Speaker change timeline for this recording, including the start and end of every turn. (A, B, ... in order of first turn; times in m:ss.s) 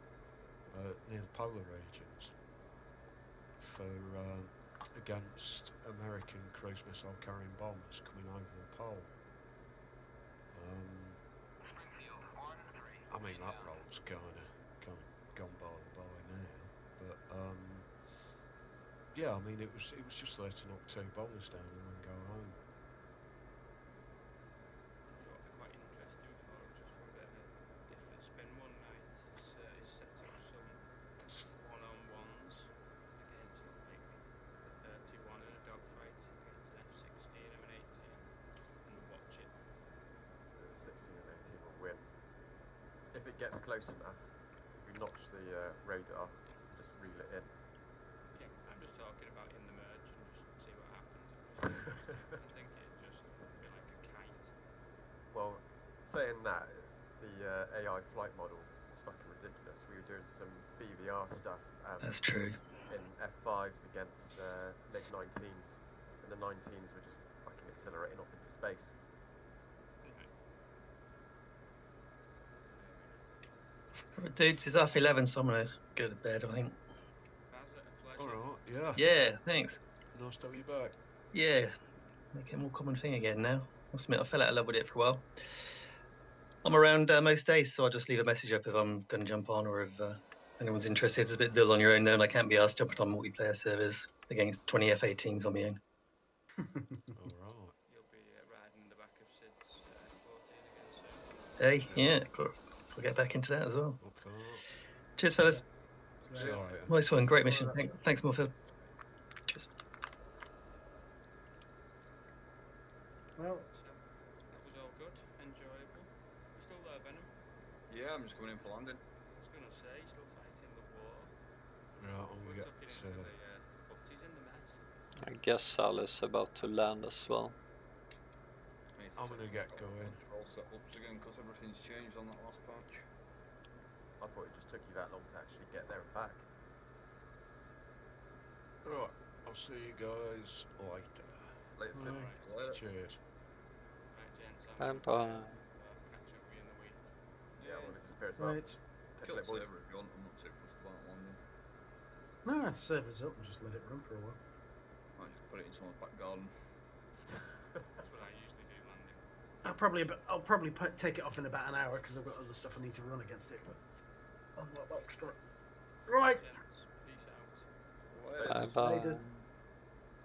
0:00.7-0:02.3 A
0:03.6-0:09.1 A
0:10.5-0:11.2 A
0:13.1-0:18.4 A
0:19.1-0:22.6 A
0:25.1-0:39.6 B
0:40.6-0:42.1 C
0:43.1-0:47.5 C
0:48.3-0:54.6 B
0:52.0-0:52.3 C
0:55.3-1:02.2 C
1:02.0-1:02.6 D
1:02.8-1:09.0 C
1:10.0-1:10.3 B
1:12.7-1:13.4 B
1:14.1-1:16.8 D
1:17.5-1:18.7 B
1:18.2-1:19.0 A
1:19.0-1:19.8 D
1:20.1-1:21.0 A
1:21.3-1:21.7 D
1:22.3-1:25.3 D
1:26.6-1:35.8 D
1:37.1-1:37.8 A
1:37.8-1:41.8 B
1:41.6-1:44.0 D
1:41.9-1:42.2 A
1:44.0-1:44.7 A
1:45.2-1:45.6 D
1:45.4-1:45.6 E
1:46.3-1:46.7 E
1:46.3-1:47.0 A
1:46.4-1:46.8 B
1:46.9-1:48.5 D
1:47.5-1:47.8 E
1:48.7-1:48.9 B
1:53.4-1:53.7 E
1:53.7-1:57.3 B
1:57.9-1:59.0 F
1:59.4-2:01.3 B
2:02.0-2:03.3 A
2:02.0-2:04.8 B
2:05.2-2:07.5 G
2:09.0-2:13.1 F
2:09.2-2:10.2 A
2:14.2-2:16.4 C
2:18.8-2:21.8 A
2:21.8-2:22.4 C
2:21.9-2:22.3 E
2:22.0-2:22.5 B
2:22.4-2:22.8 F
2:22.7-2:23.2 A
2:24.1-2:27.0 B
2:24.8-2:25.6 G
2:27.6-2:28.0 F
2:27.6-2:29.7 C
2:28.4-2:28.8 E
2:29.2-2:31.4 F
2:32.4-2:34.4 E
2:35.2-2:36.7 F
2:38.0-2:39.2 B
2:39.6-2:43.8 E
2:44.6-2:45.4 E
2:46.0-2:46.6 E
2:46.3-2:47.7 B
2:48.1-2:49.2 F
2:48.4-2:48.7 C
2:48.5-2:49.3 G
2:48.7-2:49.2 E